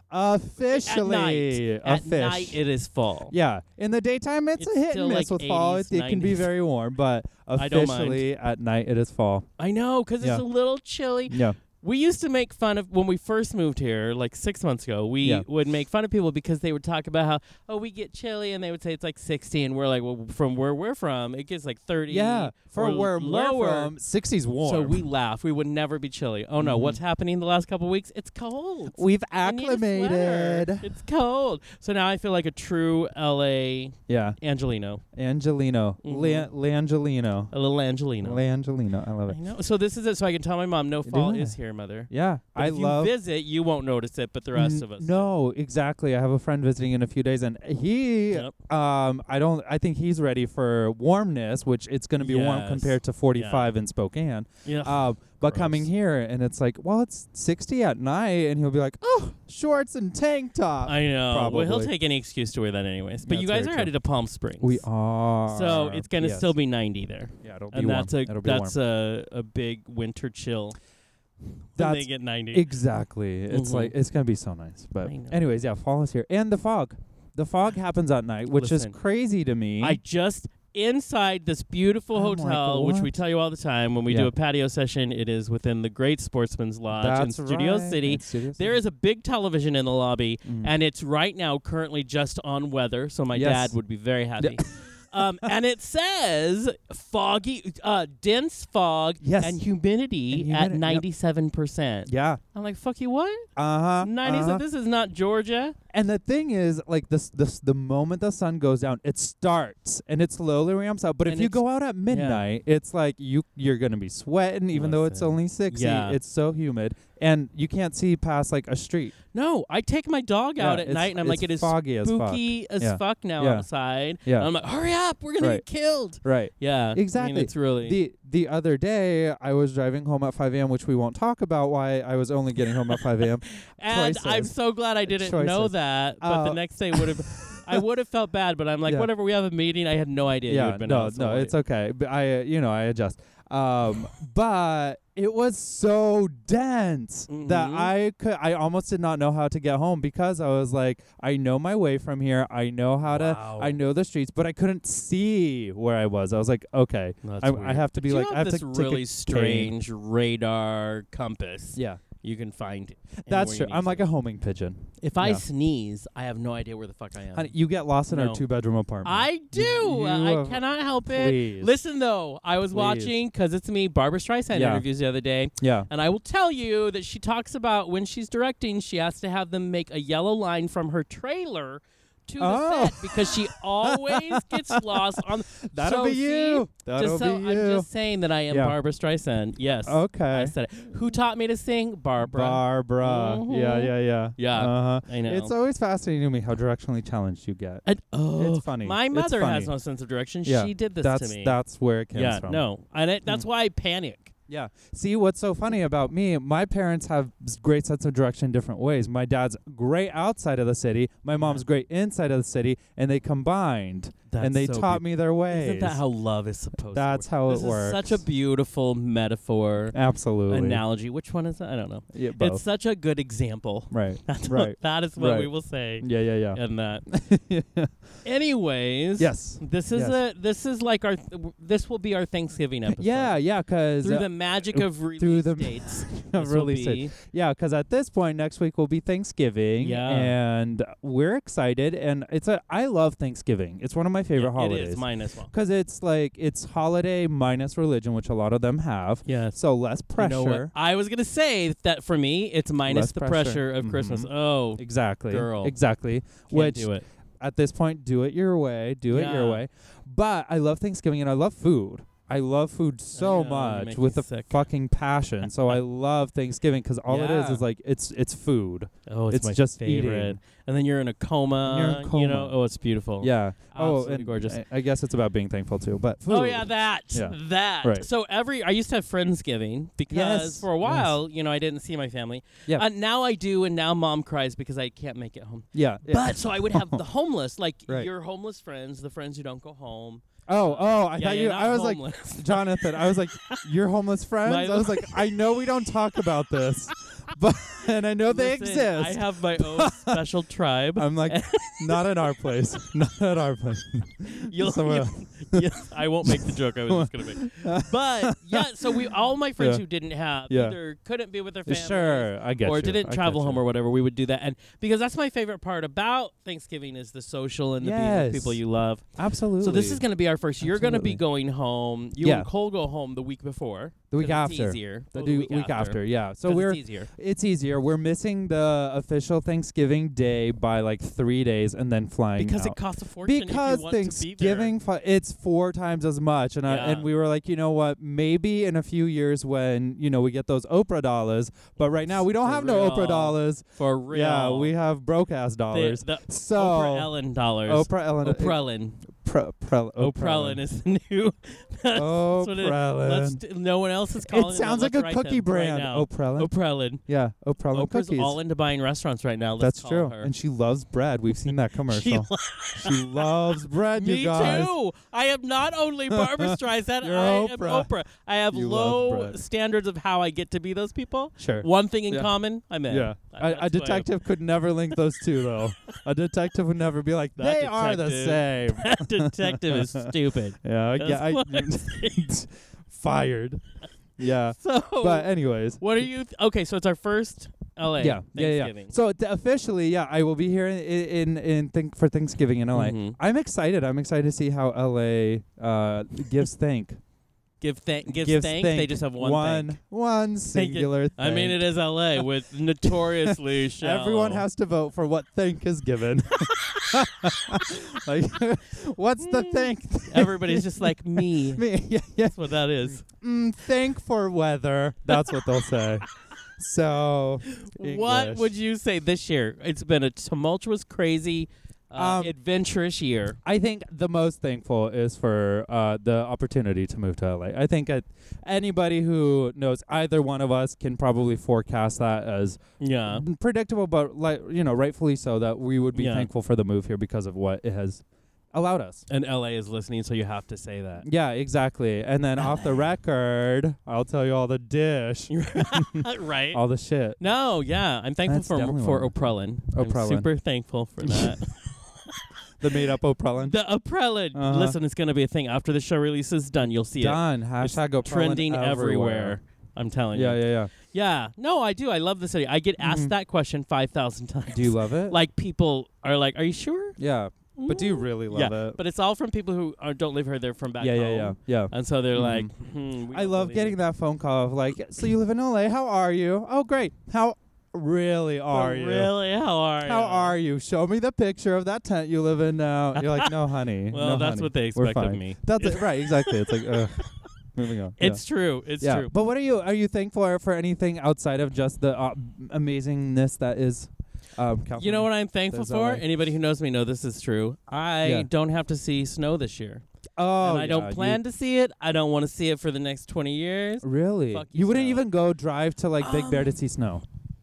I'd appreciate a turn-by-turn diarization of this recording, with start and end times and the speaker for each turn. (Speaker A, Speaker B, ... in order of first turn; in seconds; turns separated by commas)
Speaker A: 0.1-2.6, Speaker B: 0.7-3.3, Speaker A: 3.3-9.5, Speaker B: 4.6-6.5, Speaker B: 7.6-8.2, Speaker B: 9.6-23.9, Speaker A: 11.3-11.6, Speaker A: 22.1-25.0, Speaker B: 24.6-35.0, Speaker A: 26.6-27.0, Speaker A: 28.9-30.9, Speaker A: 34.1-34.4, Speaker A: 35.1-37.5, Speaker B: 36.0-36.5, Speaker B: 37.5-38.4, Speaker A: 38.2-39.4, Speaker B: 39.3-45.3, Speaker A: 41.0-41.6, Speaker A: 42.1-43.1, Speaker A: 44.5-61.9, Speaker B: 52.2-53.7, Speaker B: 54.7-55.9, Speaker B: 60.8-64.8, Speaker A: 63.3-63.9, Speaker A: 64.6-66.5, Speaker B: 65.5-70.8, Speaker A: 67.4-68.8, Speaker B: 71.8-72.7, Speaker A: 71.8-80.0, Speaker B: 73.5-73.9, Speaker B: 75.0-75.4, Speaker B: 78.5-79.0, Speaker B: 79.8-103.5, Speaker A: 82.1-83.2, Speaker A: 86.9-88.8, Speaker A: 90.5-90.7, Speaker A: 93.3-93.8, Speaker A: 99.2-99.6, Speaker A: 100.3-101.0, Speaker A: 102.1-102.4, Speaker A: 103.6-104.6, Speaker B: 104.0-105.8, Speaker A: 105.9-119.1, Speaker B: 111.2-112.4, Speaker B: 114.7-116.2, Speaker B: 119.3-128.0, Speaker A: 120.6-123.7, Speaker A: 124.2-124.5, Speaker A: 125.4-125.7, Speaker A: 126.2-137.8, Speaker B: 133.5-141.6, Speaker A: 140.5-159.7, Speaker B: 147.3-147.9, Speaker B: 153.1-153.8, Speaker B: 157.2-164.1, Speaker A: 161.8-162.0, Speaker A: 163.2-165.4, Speaker B: 165.0-167.5, Speaker A: 167.3-171.7, Speaker B: 168.1-168.4, Speaker B: 169.0-195.5, Speaker A: 172.7-173.1, Speaker A: 174.5-174.8, Speaker A: 175.6-175.9, Speaker A: 182.4-187.9, Speaker A: 188.5-188.8, Speaker A: 189.9-190.6, Speaker A: 192.2-197.8, Speaker B: 197.8-201.6, Speaker A: 198.4-199.7, Speaker A: 200.5-202.6, Speaker B: 202.1-204.3, Speaker A: 204.5-216.0, Speaker B: 211.4-211.6, Speaker B: 214.3-220.0, Speaker A: 216.9-218.2, Speaker A: 219.9-220.8, Speaker B: 220.5-227.1, Speaker A: 222.1-222.6, Speaker A: 223.9-228.0, Speaker B: 228.2-233.4, Speaker A: 229.2-230.2, Speaker A: 232.9-250.7, Speaker B: 234.0-237.1, Speaker B: 239.8-240.4, Speaker B: 244.4-245.5, Speaker B: 249.3-249.6, Speaker B: 250.2-255.8, Speaker A: 252.9-270.4, Speaker B: 256.5-257.1, Speaker B: 259.1-259.6, Speaker B: 263.1-264.6, Speaker B: 267.1-267.6, Speaker B: 269.1-274.6, Speaker A: 271.6-272.6, Speaker A: 273.2-278.1, Speaker B: 276.3-293.7, Speaker A: 280.1-281.1, Speaker A: 285.7-287.0, Speaker A: 290.5-300.2, Speaker B: 294.4-295.4, Speaker B: 298.2-302.6, Speaker A: 301.0-305.6, Speaker B: 304.3-319.1, Speaker A: 306.3-309.8, Speaker A: 310.5-310.8, Speaker A: 311.7-313.6, Speaker A: 317.8-318.6, Speaker A: 319.2-320.0, Speaker B: 319.6-327.1, Speaker A: 320.6-321.2, Speaker A: 322.2-322.5, Speaker A: 324.1-347.1, Speaker B: 332.4-334.8, Speaker B: 336.6-337.1, Speaker B: 342.4-344.7, Speaker B: 345.7-349.0, Speaker A: 347.7-348.6, Speaker A: 349.1-350.6, Speaker B: 350.0-357.0, Speaker A: 351.9-353.4, Speaker A: 354.2-356.5, Speaker A: 357.0-358.4, Speaker B: 357.7-360.3, Speaker A: 359.6-364.7, Speaker B: 361.9-363.3, Speaker B: 363.9-374.1, Speaker A: 366.1-367.9, Speaker A: 368.5-369.4, Speaker A: 371.4-372.3, Speaker A: 372.9-380.1, Speaker B: 377.4-382.3, Speaker A: 380.6-383.6, Speaker A: 384.2-386.1, Speaker B: 384.6-388.9, Speaker A: 388.0-397.0, Speaker B: 392.7-393.2, Speaker B: 397.6-399.8, Speaker A: 398.1-402.2, Speaker B: 400.5-404.5, Speaker A: 402.9-418.5, Speaker B: 409.2-411.7, Speaker B: 412.3-413.0, Speaker B: 417.5-423.4, Speaker A: 421.9-422.4, Speaker A: 423.4-439.0, Speaker B: 432.8-433.3, Speaker B: 435.9-436.3, Speaker B: 439.1-441.1, Speaker A: 441.0-447.2, Speaker B: 442.4-442.8, Speaker B: 445.3-446.6, Speaker B: 447.2-452.2, Speaker A: 448.3-449.1, Speaker A: 449.7-450.3, Speaker A: 451.0-451.4, Speaker A: 452.6-453.6, Speaker B: 453.4-467.0, Speaker A: 454.3-454.8, Speaker A: 457.0-459.4, Speaker A: 460.1-460.7, Speaker A: 462.8-463.1, Speaker A: 464.5-465.2, Speaker A: 467.0-468.8, Speaker B: 467.6-473.8, Speaker A: 470.8-472.5, Speaker A: 473.1-479.1, Speaker B: 478.5-480.4, Speaker A: 479.8-488.2, Speaker B: 482.9-487.2, Speaker B: 488.0-489.1, Speaker A: 488.8-496.1, Speaker B: 494.8-499.8, Speaker A: 498.0-498.3, Speaker A: 500.2-501.2, Speaker B: 500.4-505.1, Speaker A: 503.8-507.0, Speaker B: 506.0-506.6